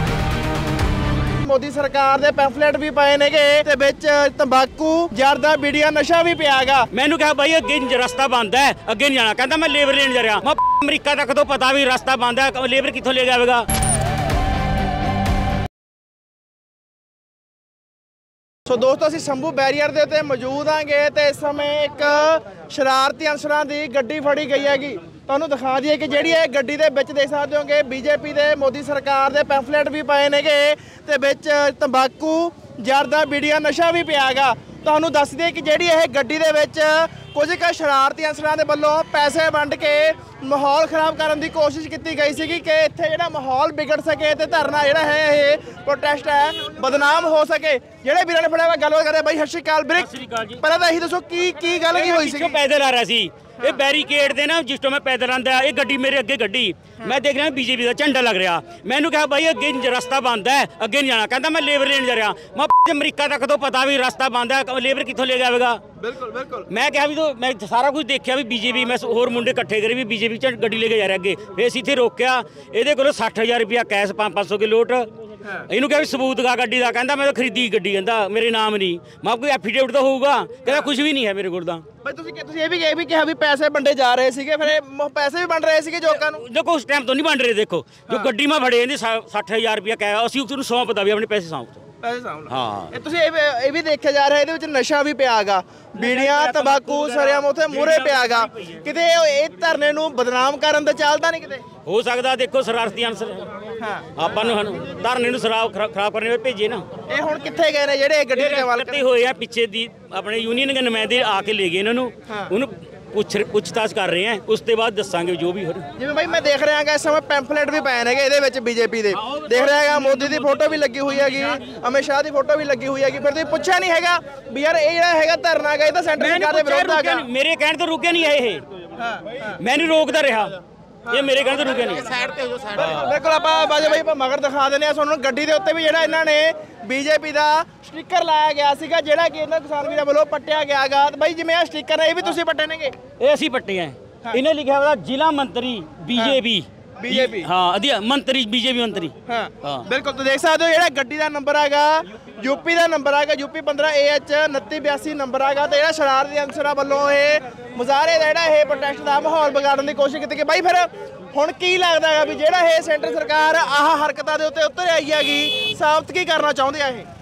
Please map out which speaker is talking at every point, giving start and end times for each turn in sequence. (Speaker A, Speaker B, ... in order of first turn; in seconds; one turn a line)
Speaker A: 1.4-6.9
Speaker B: 6.9-13.7
Speaker A: 18.7-52.6
Speaker B: 50.0-50.6
Speaker B: 51.9-65.8
Speaker A: 66.0-66.7
Speaker B: 66.7-75.1
Speaker B: 75.7-81.8
Speaker A: 82.0-86.4
Speaker B: 86.1-91.8
Speaker A: 92.0-101.6
Speaker B: 92.5-92.9
Speaker B: 96.0-98.8
Speaker B: 101.8-103.5
Speaker A: 103.8-104.1
Speaker B: 104.2-106.8
Speaker A: 107.1-109.0
Speaker B: 108.3-115.9
Speaker A: 112.3-112.5
Speaker A: 116.0-127.2
Speaker B: 119.2-121.7
Speaker B: 126.2-128.6
Speaker A: 129.0-129.6
Speaker B: 129.6-133.1
Speaker A: 132.7-143.0
Speaker B: 143.2-149.9
Speaker A: 146.1-146.4
Speaker A: 147.0-147.5
Speaker A: 149.3-167.1